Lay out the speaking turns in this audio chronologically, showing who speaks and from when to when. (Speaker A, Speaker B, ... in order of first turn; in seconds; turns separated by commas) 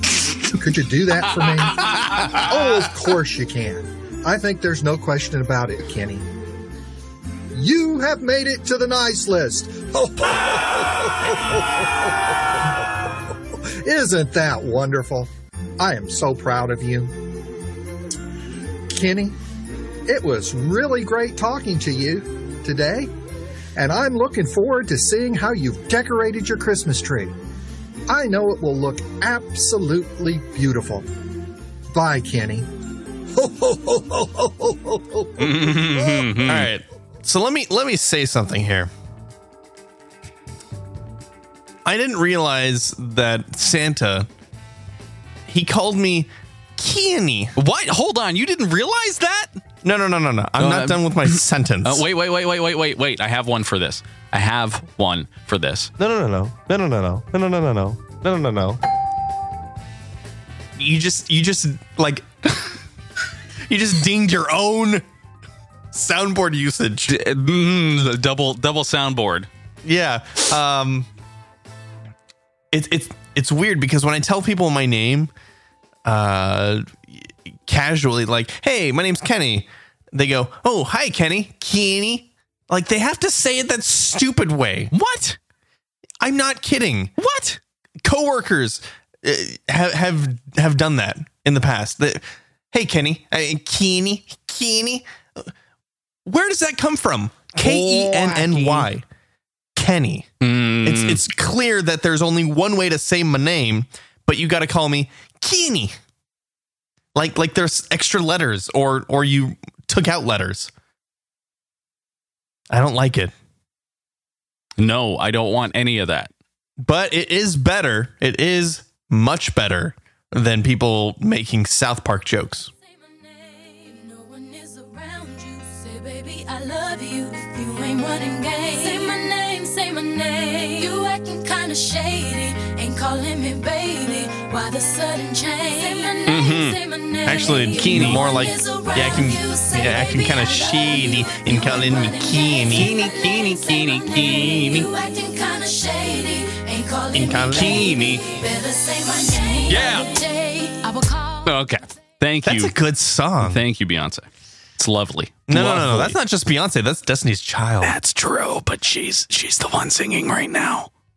Speaker A: 0.4-6.3, Speaker A: 7.5-13.0, Speaker A: 13.6-17.1, Speaker A: 18.9-19.4, Speaker A: 20.1-23.1, Speaker A: 23.8-27.3, Speaker A: 28.1-31.1, Speaker A: 31.9-32.7, Speaker A: 33.3-36.2, Speaker B: 35.4-36.7, Speaker C: 36.3-38.9, Speaker C: 41.9-44.3, Speaker C: 45.5-47.5, Speaker B: 47.6-49.6, Speaker C: 49.8-52.1, Speaker B: 50.6-55.9, Speaker C: 56.0-58.8, Speaker C: 60.8-62.8, Speaker C: 63.7-65.0, Speaker C: 65.9-67.1, Speaker B: 67.1-69.5, Speaker C: 69.8-71.1, Speaker C: 72.7-75.3, Speaker C: 76.0-84.9, Speaker B: 84.9-85.4, Speaker C: 86.2-87.2, Speaker B: 87.2-87.6, Speaker C: 88.0-95.5, Speaker C: 96.3-99.0, Speaker B: 97.6-98.9, Speaker C: 99.8-100.3, Speaker B: 100.4-101.2, Speaker C: 100.8-106.0, Speaker C: 107.2-110.7, Speaker C: 112.7-113.3, Speaker B: 114.8-116.3, Speaker C: 116.8-122.7, Speaker D: 122.9-151.5, Speaker B: 136.3-136.8, Speaker C: 137.2-142.9, Speaker B: 137.7-138.2, Speaker B: 142.7-144.9, Speaker C: 147.1-148.0, Speaker B: 147.5-148.2, Speaker B: 149.7-150.1, Speaker B: 151.4-152.7, Speaker C: 152.4-153.6, Speaker B: 153.4-156.2, Speaker C: 155.5-158.0, Speaker B: 157.8-160.9